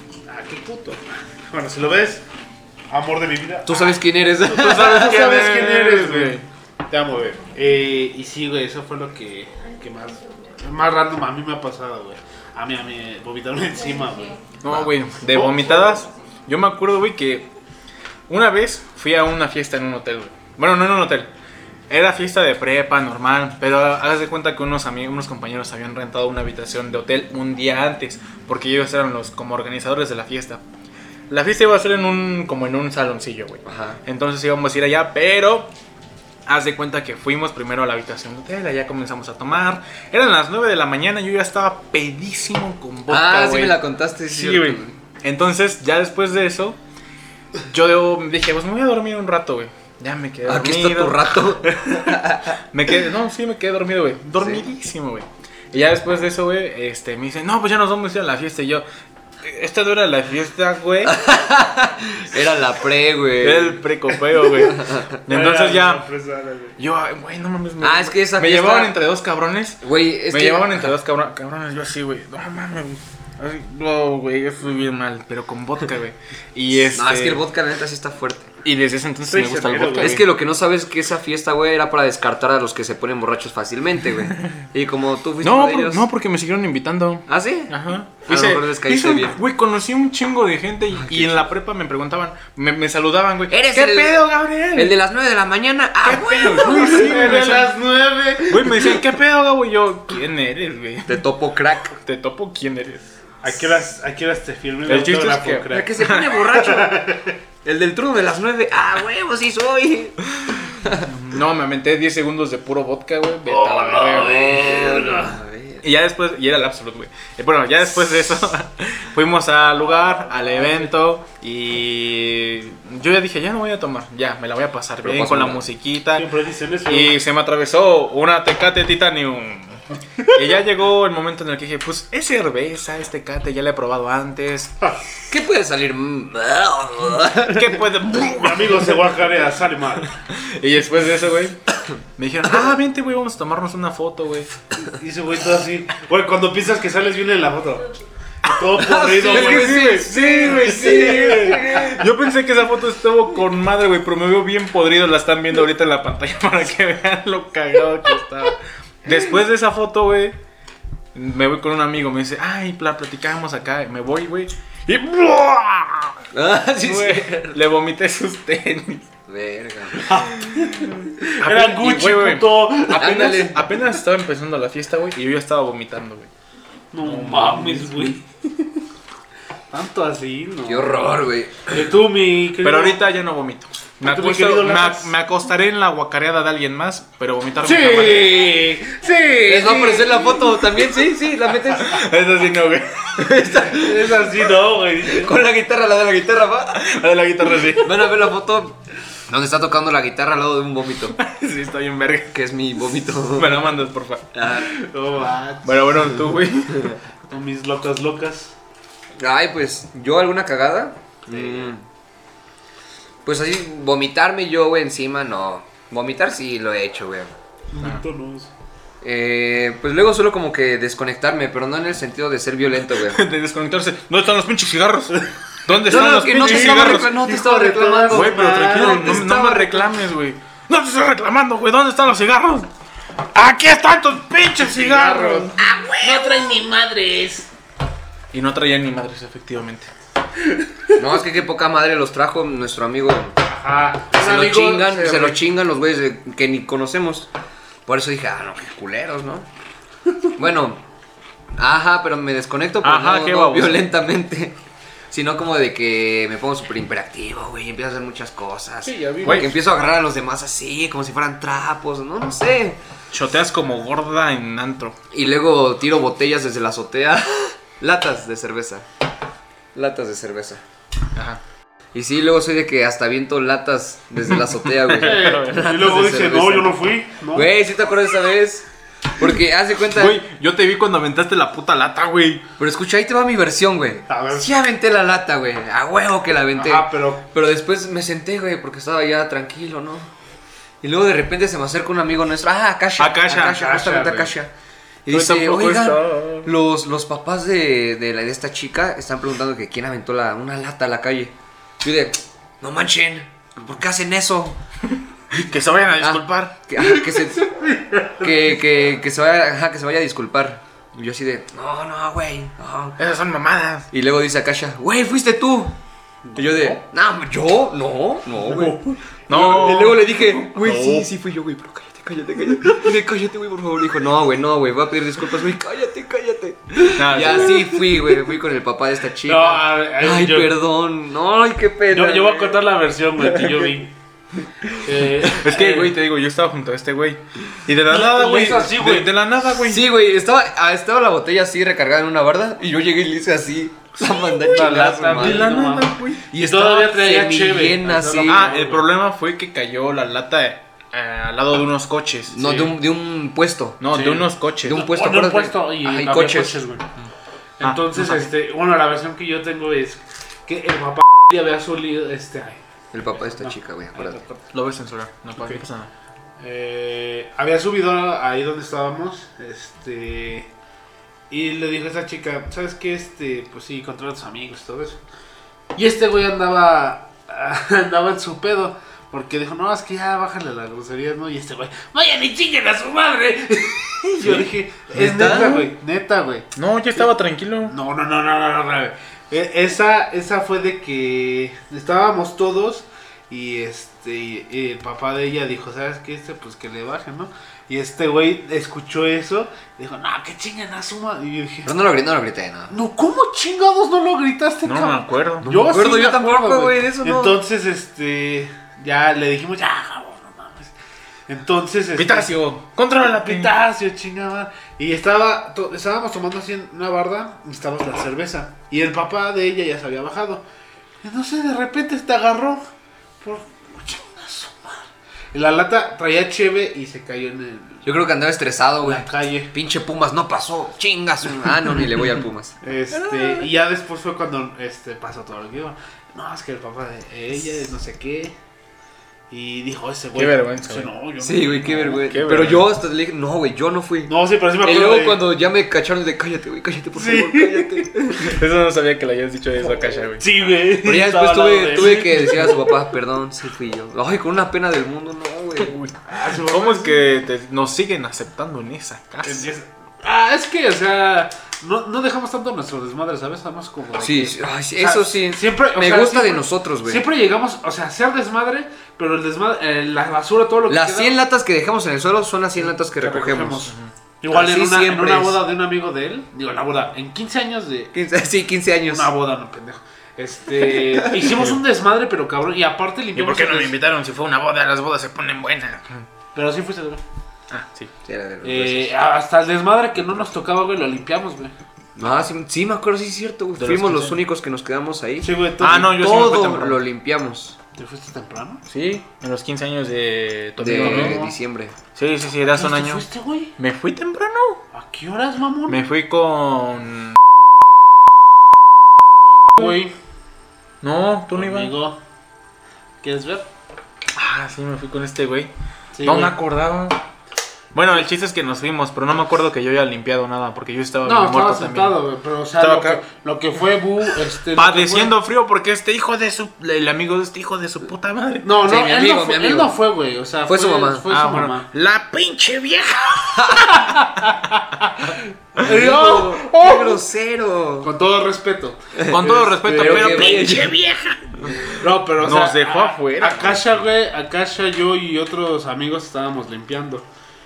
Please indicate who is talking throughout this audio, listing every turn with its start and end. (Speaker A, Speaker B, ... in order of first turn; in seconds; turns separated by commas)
Speaker A: 0.3-2.2, Speaker A: 2.9-4.0, Speaker B: 3.6-5.2, Speaker C: 4.5-6.4, Speaker A: 4.6-14.4, Speaker C: 14.6-17.4, Speaker B: 14.7-14.9, Speaker A: 15.3-16.0, Speaker C: 18.3-21.3, Speaker C: 21.9-30.6, Speaker C: 31.3-35.7, Speaker B: 33.6-34.0, Speaker C: 36.5-46.8, Speaker B: 43.1-44.9, Speaker C: 47.7-58.8, Speaker B: 50.5-52.6, Speaker B: 54.4-54.6, Speaker C: 59.4-61.2, Speaker B: 61.0-63.8, Speaker C: 63.4-66.0, Speaker B: 64.7-65.0, Speaker A: 65.3-66.8, Speaker C: 66.8-77.4, Speaker B: 67.8-69.0, Speaker B: 69.8-70.9, Speaker B: 76.9-78.5, Speaker C: 78.6-80.3, Speaker A: 79.2-80.2, Speaker B: 80.0-86.0, Speaker C: 85.4-95.0, Speaker B: 87.3-89.4, Speaker B: 91.0-91.4, Speaker B: 93.5-94.2, Speaker B: 94.7-97.4, Speaker C: 96.0-97.7, Speaker A: 96.6-99.0, Speaker C: 98.5-101.3, Speaker B: 101.1-101.9, Speaker C: 101.9-103.1, Speaker A: 103.4-107.3, Speaker C: 104.8-106.3, Speaker B: 105.7-107.1, Speaker B: 107.6-110.2, Speaker B: 110.7-111.0, Speaker C: 111.0-114.5, Speaker A: 113.5-115.3, Speaker B: 114.0-115.8, Speaker C: 115.8-126.3, Speaker A: 120.4-120.9, Speaker B: 125.0-125.7, Speaker A: 126.1-127.2, Speaker C: 126.8-134.7, Speaker B: 135.3-137.8, Speaker C: 137.4-138.9, Speaker A: 138.2-140.1, Speaker C: 140.3-141.6, Speaker C: 142.2-144.5, Speaker A: 144.9-147.9, Speaker A: 148.4-151.6, Speaker B: 148.8-152.1, Speaker C: 149.2-160.3, Speaker C: 161.1-166.2, Speaker B: 166.3-167.6, Speaker C: 166.8-169.1, Speaker B: 169.3-170.1, Speaker A: 170.0-173.6, Speaker C: 170.5-170.8, Speaker C: 171.4-176.3, Speaker B: 172.9-173.6, Speaker A: 176.9-178.2, Speaker C: 177.0-178.2, Speaker A: 179.7-181.2, Speaker B: 180.7-181.7, Speaker A: 181.7-183.0, Speaker C: 182.6-188.4, Speaker A: 184.0-185.1, Speaker A: 187.6-190.9, Speaker B: 189.4-192.0, Speaker C: 191.8-193.4, Speaker B: 193.2-194.5, Speaker A: 193.7-195.4, Speaker B: 195.0-196.9, Speaker C: 196.7-198.1, Speaker B: 197.7-201.2, Speaker C: 201.1-202.4, Speaker B: 202.3-203.7, Speaker C: 203.3-204.5, Speaker B: 204.3-204.7, Speaker A: 204.6-206.2, Speaker C: 205.6-207.0, Speaker A: 207.3-208.5, Speaker B: 209.2-211.8, Speaker A: 211.3-211.7, Speaker B: 213.2-217.3, Speaker A: 217.7-218.5, Speaker B: 219.0-223.2, Speaker C: 223.0-227.1, Speaker A: 225.8-229.3, Speaker B: 225.8-229.9, Speaker C: 228.1-232.7, Speaker C: 233.3-235.7, Speaker A: 234.6-237.5, Speaker B: 235.6-236.3, Speaker C: 238.3-239.9, Speaker B: 240.9-243.4, Speaker A: 243.4-245.4, Speaker B: 244.1-247.3, Speaker B: 247.8-249.5, Speaker B: 250.4-250.8, Speaker B: 251.6-254.6, Speaker C: 252.8-253.9, Speaker B: 255.1-262.8, Speaker A: 258.8-259.6, Speaker C: 259.2-259.5, Speaker C: 263.1-265.0, Speaker B: 265.1-268.8, Speaker B: 269.7-270.6, Speaker C: 271.1-271.4, Speaker B: 271.9-276.8, Speaker C: 274.4-275.7, Speaker A: 275.0-277.5, Speaker B: 277.3-280.2, Speaker C: 279.9-282.4, Speaker B: 282.6-290.1, Speaker A: 284.1-284.5, Speaker A: 286.5-287.2, Speaker B: 290.8-294.5, Speaker C: 293.0-293.6, Speaker A: 293.5-294.3, Speaker B: 295.1-304.6, Speaker C: 295.1-296.5, Speaker C: 305.3-306.6, Speaker B: 306.0-307.5, Speaker A: 306.8-308.4, Speaker B: 308.2-313.0, Speaker C: 313.0-313.9, Speaker B: 313.9-315.7, Speaker A: 316.3-316.8, Speaker B: 316.3-332.6, Speaker A: 318.4-318.9, Speaker C: 319.3-321.1, Speaker C: 326.9-327.7, Speaker A: 329.2-330.5, Speaker A: 331.9-333.9, Speaker B: 333.3-333.6, Speaker A: 334.8-335.9, Speaker C: 335.3-339.9, Speaker A: 337.9-339.2, Speaker B: 339.6-345.8, Speaker C: 344.0-346.3, Speaker A: 344.5-348.9, Speaker B: 346.3-348.5, Speaker C: 348.2-352.4, Speaker B: 352.3-353.8, Speaker A: 352.4-352.7, Speaker C: 353.8-354.8, Speaker A: 353.9-356.9, Speaker B: 354.6-356.6, Speaker A: 357.6-362.6, Speaker C: 357.6-358.3, Speaker B: 362.9-364.2, Speaker A: 363.1-364.4, Speaker C: 364.5-365.9, Speaker A: 366.4-370.5, Speaker A: 371.3-375.0, Speaker A: 375.7-387.1, Speaker C: 384.2-385.7, Speaker B: 385.0-385.6, Speaker C: 386.6-387.7, Speaker A: 387.6-401.7, Speaker B: 401.6-402.7, Speaker A: 402.7-410.7, Speaker C: 404.6-405.6, Speaker B: 405.4-407.4, Speaker A: 411.3-412.3, Speaker C: 411.9-413.5, Speaker A: 413.0-420.4, Speaker A: 421.0-422.6, Speaker A: 423.2-427.8, Speaker B: 427.8-433.4, Speaker A: 428.8-429.5, Speaker A: 432.6-438.3, Speaker A: 439.3-442.1, Speaker C: 440.1-440.9, Speaker B: 441.2-448.4, Speaker C: 441.9-442.7, Speaker A: 444.1-445.2, Speaker A: 446.9-447.9, Speaker C: 448.1-450.2, Speaker A: 450.2-452.8, Speaker B: 450.8-455.7, Speaker C: 455.6-459.5, Speaker A: 456.1-457.0, Speaker A: 459.2-471.1, Speaker B: 464.0-467.1, Speaker B: 470.7-473.7, Speaker A: 472.7-477.9, Speaker B: 474.3-475.4, Speaker B: 477.9-479.1, Speaker A: 478.9-483.7, Speaker B: 480.6-481.4, Speaker C: 483.1-486.0, Speaker A: 486.3-487.0, Speaker C: 487.5-487.9, Speaker B: 488.0-488.9, Speaker A: 488.4-491.5, Speaker B: 491.9-497.6, Speaker C: 493.6-494.2, Speaker A: 495.2-496.1, Speaker C: 495.6-496.8, Speaker A: 497.7-498.6, Speaker C: 498.7-501.2, Speaker B: 500.6-501.7, Speaker A: 500.6-501.4, Speaker C: 501.9-503.0, Speaker A: 502.4-503.5, Speaker C: 503.6-504.6, Speaker A: 504.7-505.8, Speaker C: 505.7-507.2, Speaker A: 509.5-509.9, Speaker C: 510.8-511.7, Speaker A: 511.3-512.0, Speaker A: 513.0-513.5, Speaker C: 514.1-515.5, Speaker A: 515.9-516.4, Speaker C: 516.0-517.0, Speaker C: 517.7-522.0, Speaker A: 521.0-525.1, Speaker C: 522.6-523.0, Speaker C: 524.5-528.5, Speaker A: 528.4-531.7, Speaker B: 528.6-529.8, Speaker B: 530.5-531.1, Speaker C: 531.1-536.9, Speaker B: 533.4-533.7, Speaker A: 533.7-534.4, Speaker A: 535.0-536.9, Speaker B: 535.6-537.9, Speaker A: 537.8-540.7, Speaker B: 538.9-540.8, Speaker C: 539.0-543.7, Speaker B: 541.4-541.7, Speaker A: 541.8-547.0